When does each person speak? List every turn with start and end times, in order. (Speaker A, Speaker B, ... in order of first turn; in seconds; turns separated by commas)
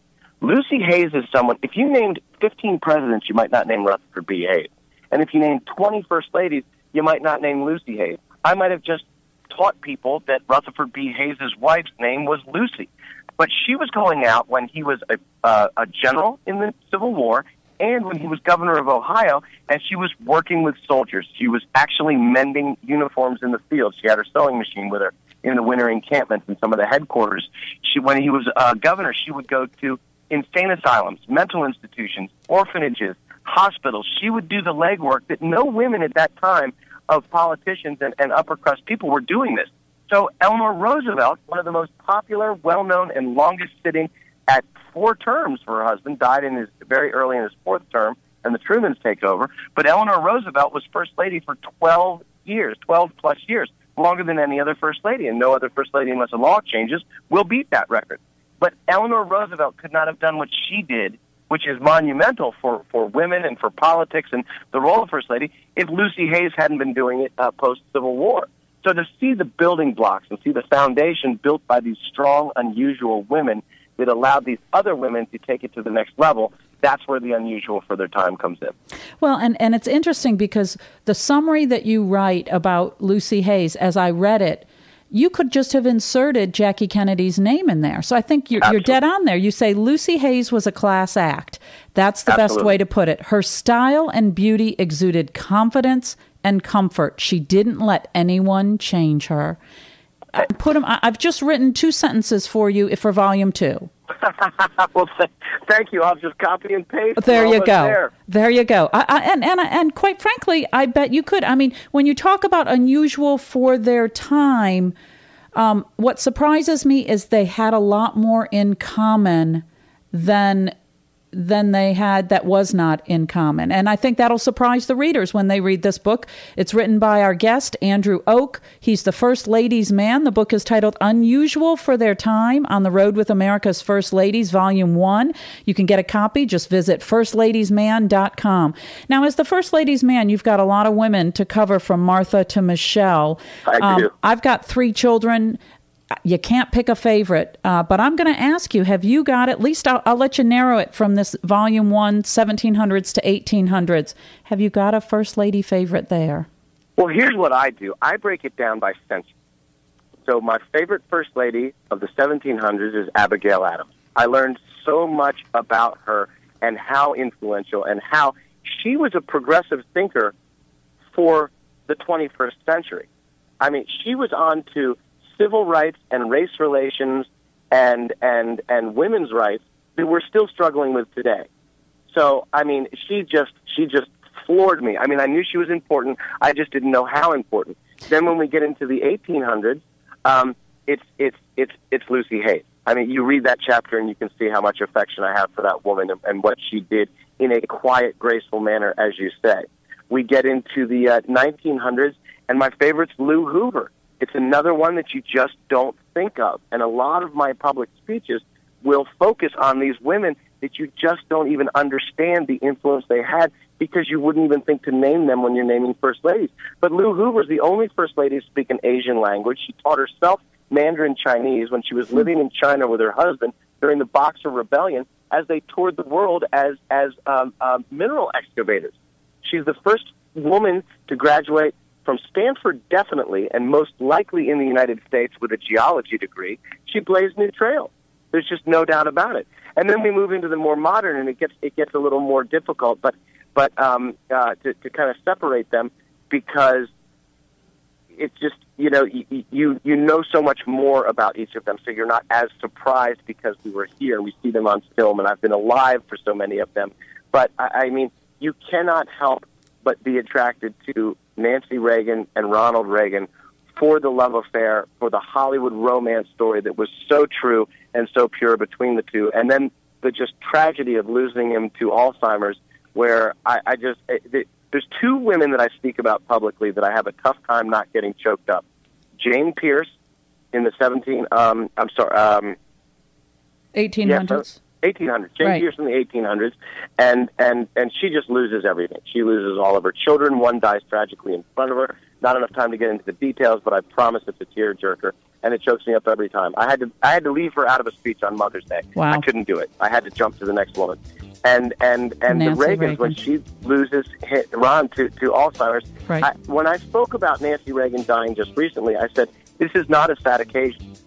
Speaker A: 0.4-78.7, Speaker B: 79.2-99.6, Speaker A: 88.6-89.0, Speaker A: 92.3-92.8, Speaker B: 100.3-103.9, Speaker A: 104.2-108.1, Speaker B: 107.2-114.9, Speaker B: 115.5-120.8, Speaker B: 121.3-145.6, Speaker A: 143.7-144.1, Speaker B: 146.2-156.5, Speaker A: 157.0-159.3, Speaker A: 160.2-170.3, Speaker A: 171.1-173.1, Speaker A: 173.6-181.5, Speaker A: 182.1-246.9, Speaker A: 248.1-278.6, Speaker A: 279.2-279.9, Speaker A: 280.5-282.6, Speaker B: 283.7-284.6, Speaker A: 284.1-310.8, Speaker B: 285.4-285.7, Speaker B: 299.0-299.3, Speaker B: 302.3-303.2